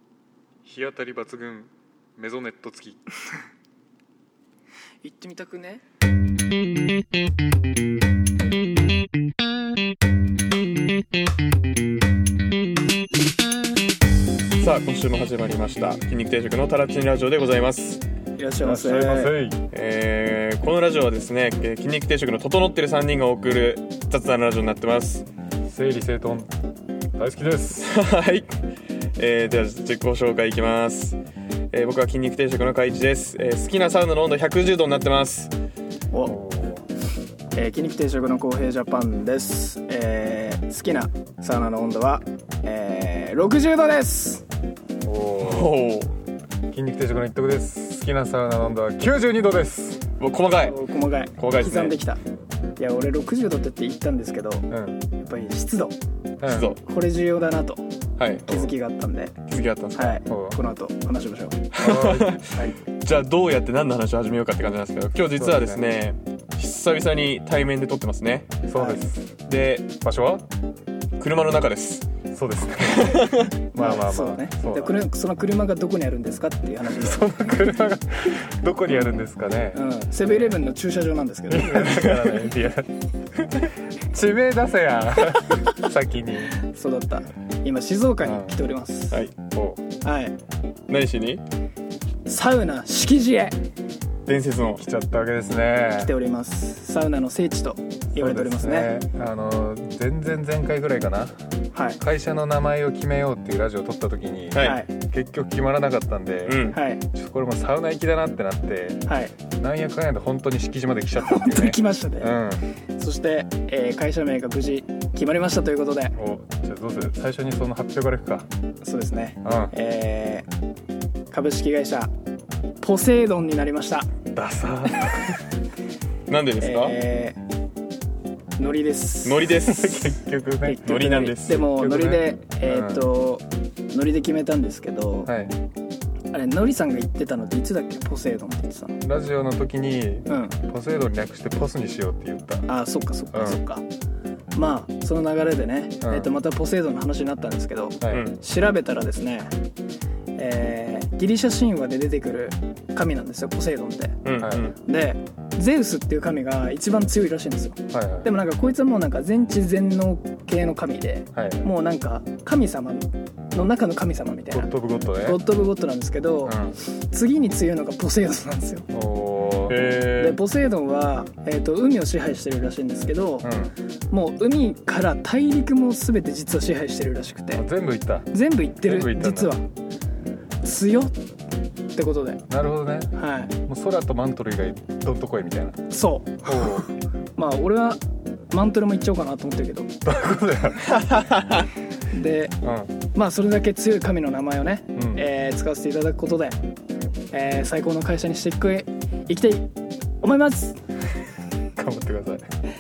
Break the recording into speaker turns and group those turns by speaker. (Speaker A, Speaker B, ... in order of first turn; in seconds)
Speaker A: 0.7-3.0, 18.6-19.6, 25.7-26.5, 27.2-27.9, 36.3-36.8, 45.0-45.8, 46.7-50.0, 54.7-55.0, 56.4-56.7, 60.3-60.6, 61.8-62.4, 65.4-65.8, 68.7-69.3, 70.0-70.4, 72.3-75.0, 76.9-80.6, 81.5-82.9, 84.0-86.5, 88.2-88.6, 89.5-89.8, 95.2-96.1, 98.2-101.3, 102.0-109.1, 109.6-112.6, 116.2-118.5, 119.4-119.7, 124.3-125.4, 129.7-133.1, 135.3-135.6, 139.0-142.7, 143.3-143.6, 146.0-146.3, 154.4-154.7, 157.9-158.3, 161.3-161.7, 164.5-165.4, 166.5-166.8, 168.9-169.8, 173.4-173.8, 177.5-179.5, 182.5-183.2, 183.7-185.8, 186.4-186.9, 190.1-190.9, 192.6-192.9, 195.0-195.2, 201.8-202.4
Speaker B: 5.0-5.8, 18.4-19.4, 37.5-44.4, 50.7-52.2, 52.8-54.7, 55.2-56.0, 56.8-57.9, 58.5-59.3, 60.0-61.7, 73.8-77.3, 78.9-79.2, 79.7-82.0, 86.5-89.2, 90.0-90.3, 92.3-93.6, 96.0-98.9, 101.7-102.0, 104.6-104.9, 106.7-107.0, 109.1-109.3, 111.2-112.3, 113.0-116.2, 118.8-120.5, 121.3-122.1, 122.8-124.1, 126.6-127.4, 128.6-129.5, 130.7-135.3, 136.3-139.0, 140.3-140.6, 142.7-143.8, 144.5-149.5, 150.4-164.7, 165.2-166.6, 167.1-168.9, 170.2-173.5, 174.1-177.7, 178.3-179.7, 180.6-181.2, 182.0-182.4, 183.1-183.5, 185.9-190.0, 192.1-192.6, 193.1-196.6, 197.3-199.7, 200.2-200.8
Speaker C: 14.6-18.0, 19.7-25.2, 27.8-28.5, 29.2-31.2, 31.7-35.5, 45.4-46.1, 50.2-50.8, 51.4-52.0, 56.5-56.8, 58.2-58.7, 59.5-60.2, 61.7-68.5, 69.5-69.9, 71.2-72.1, 72.8-73.5, 81.7-82.5, 90.9-91.4, 94.3-95.3, 104.5-104.8, 106.5-106.8, 126.3-127.0, 129.2-130.2, 130.8-131.6, 148.1-148.3, 154.2-154.7, 169.7-170.4, 191.1-191.6